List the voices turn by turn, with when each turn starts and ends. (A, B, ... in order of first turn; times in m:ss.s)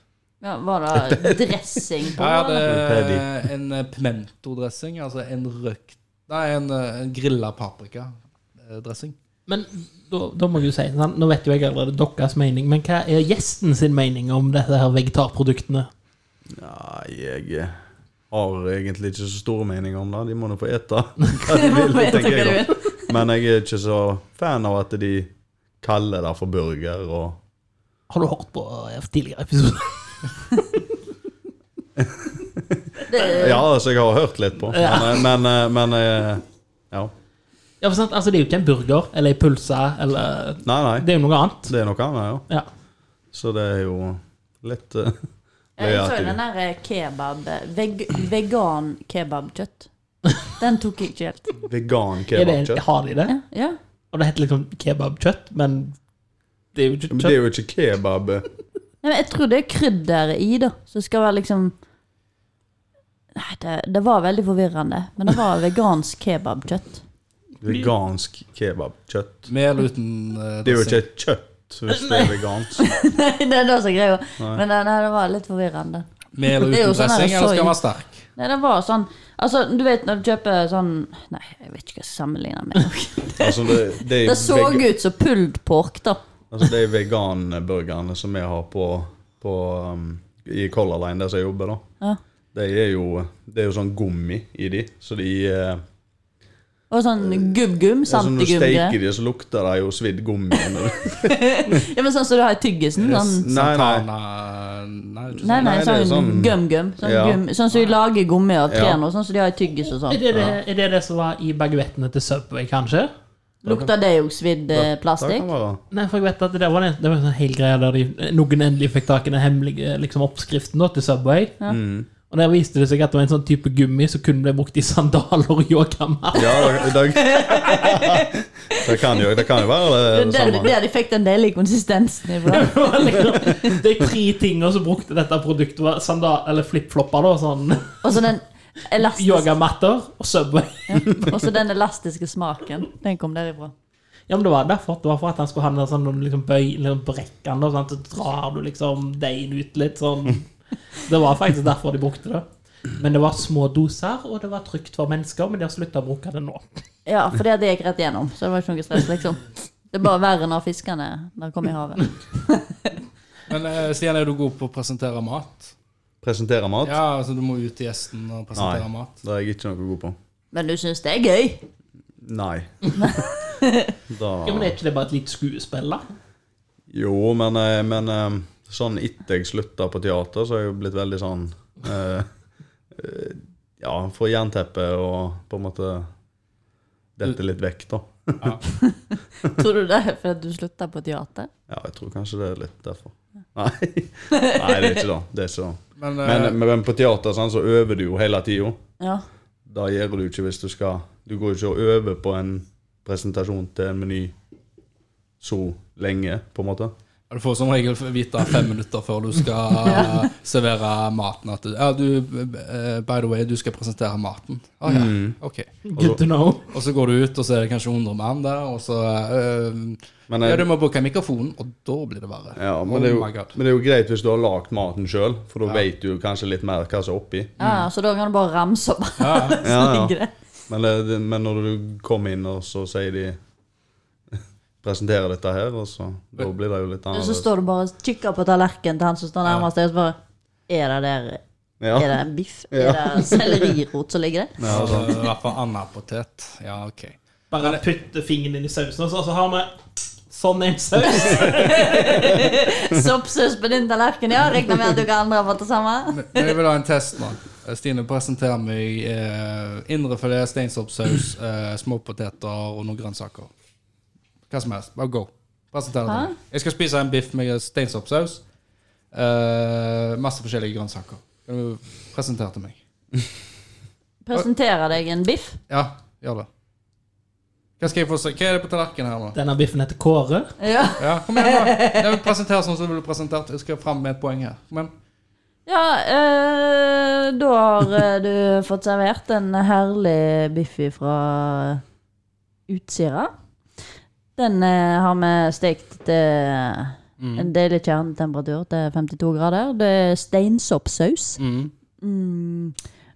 0:00.4-0:02.7 A
0:00.9-0:01.8 B
0:02.1-0:09.1 C
0:02.6-0:03.3 B
0:09.5-0:15.9 D
0:16.5-0:25.3 B
0:21.5-0:23.1 A
0:25.8-0:27.4 B
0:28.1-0:30.0 D
0:32.0-0:37.1 B
0:33.0-0:33.6 A
0:34.7-0:35.3 D
0:37.8-0:41.7 D
0:40.6-0:41.1 B
0:41.6-0:42.5 B
0:43.3-0:45.2 B
0:45.8-0:46.4 B
0:45.8-0:49.9 A
0:50.6-0:51.5 A
0:51.6-0:52.8 B
0:52.3-0:53.3 D
0:53.3-0:53.8 A
0:54.1-0:56.0 D
0:56.7-0:57.4 D
0:57.1-0:58.4 B
0:59.0-1:01.7 A
1:03.3-1:07.0 A
1:07.6-1:09.5 B
1:09.5-1:11.0 C
1:10.6-1:13.0 B
1:12.8-1:17.8 A
1:16.3-1:18.2 C
1:18.4-1:26.2 A
1:23.4-1:24.9 B
1:26.5-1:31.8 B
1:32.5-1:35.8 B
1:36.9-1:38.9 A
1:37.2-1:37.5 B
1:38.0-1:41.8 B
1:41.2-1:43.4 A
1:43.0-1:45.8 C
1:43.4-1:44.1 B
1:45.4-1:47.4 B
1:45.4-1:50.2 A
1:48.7-1:49.0 B
1:50.0-1:53.1 D
1:53.6-1:55.5 A
1:53.6-1:53.9 B
1:54.7-1:55.8 B
1:55.9-2:01.6 D
2:01.7-2:02.1 B
2:02.2-2:06.8 D
2:06.3-2:10.7 B
2:06.9-2:09.2 A
2:10.0-2:12.8 A
2:12.4-2:18.0 D
2:18.0-2:19.5 A
2:19.0-2:21.4 D
2:20.9-2:23.7 A
2:24.3-2:36.8 D
2:37.0-2:43.0 A
2:43.5-2:45.7 C
2:46.2-2:47.0 B
2:46.8-2:49.1 C
2:48.6-2:50.1 B
2:50.5-2:51.6 A
2:52.2-2:53.2 B
2:52.9-2:53.9 A
2:54.1-2:54.8 B
2:54.4-2:56.0 D
2:56.9-3:02.3 B
3:02.9-3:06.1 B
3:07.2-3:08.6 B
3:08.7-3:11.5 A
3:11.7-3:18.8 B
3:14.3-3:15.0 A
3:16.0-3:16.6 C
3:19.7-3:24.3 B
3:25.4-3:26.9 B
3:27.3-3:35.7 C
3:29.8-3:30.2 A
3:34.8-3:35.4 B
3:35.8-3:36.6 D
3:36.0-3:36.2 B
3:36.7-3:43.5 C
3:40.3-3:40.7 B
3:42.6-3:47.5 B
3:47.6-3:47.9 C
3:47.6-3:50.3 A
3:49.2-3:49.6 C
3:49.6-3:50.1 B
3:50.7-3:53.4 B
3:54.3-3:57.5 B
3:57.1-4:00.2 A
4:00.7-4:01.4 A
4:01.8-4:02.1 B
4:01.9-4:04.6 A
4:02.7-4:03.7 B
4:04.6-4:05.2 B
4:04.6-4:07.8 C
4:07.5-4:12.5 D
4:11.0-4:16.5 A
4:16.1-4:23.5 C
4:24.5-4:28.4 C
4:26.0-4:26.3 A
4:29.1-4:32.8 C
4:34.2-4:35.6 A
4:35.7-4:36.5 C
4:37.8-4:39.4 C
4:39.3-4:40.6 D
4:40.6-4:42.1 A
4:41.0-4:44.9 C
4:45.7-4:51.8 A
4:52.7-4:53.3 A
4:54.4-5:01.4 A
4:57.2-4:57.5 C
5:01.4-5:01.7 C
5:02.0-5:02.8 A